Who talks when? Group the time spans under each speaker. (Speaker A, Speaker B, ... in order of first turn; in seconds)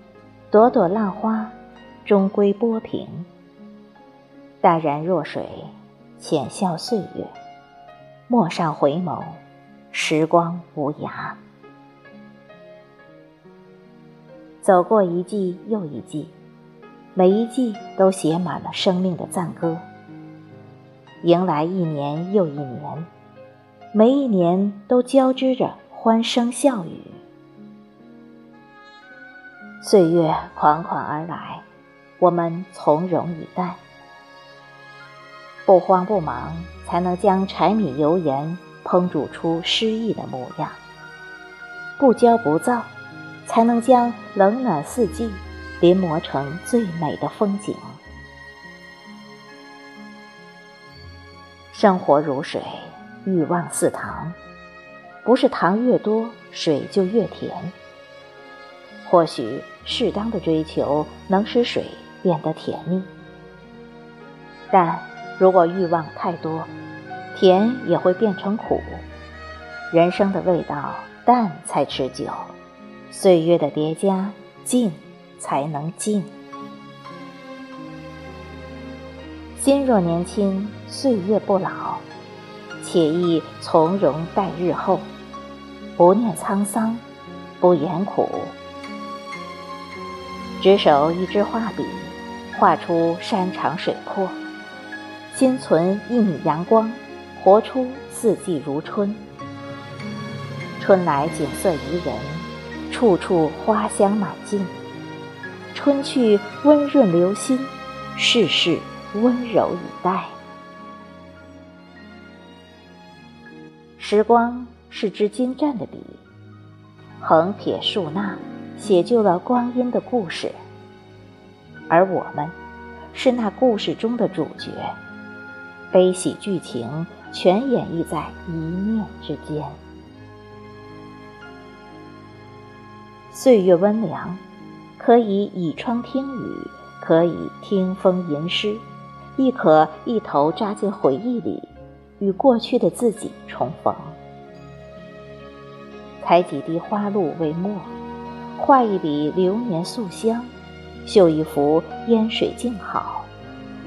Speaker A: 0.5-3.3, 4.6-7.3, 8.3-9.4, 9.9-11.4, 14.6-16.3, 17.1-19.8, 21.2-23.1, 23.9-27.2, 29.8-31.6, 32.2-33.8, 35.7-40.8, 42.0-42.9, 43.4-48.0, 51.7-54.4, 55.2-57.7, 59.0-63.1, 64.7-66.7, 67.3-69.0, 69.9-72.5, 73.1-76.3, 79.5-82.0, 82.8-85.0, 86.0-87.0, 87.6-88.5, 90.6-94.4, 95.3-99.2, 100.8-104.7, 105.7-110.3, 114.0-116.2, 117.2-120.5, 121.9-122.5, 123.1-124.9, 125.9-129.8, 133.3-134.4, 135.0-138.8, 139.4-144.2, 146.2-147.9, 148.6-150.5, 151.0-153.3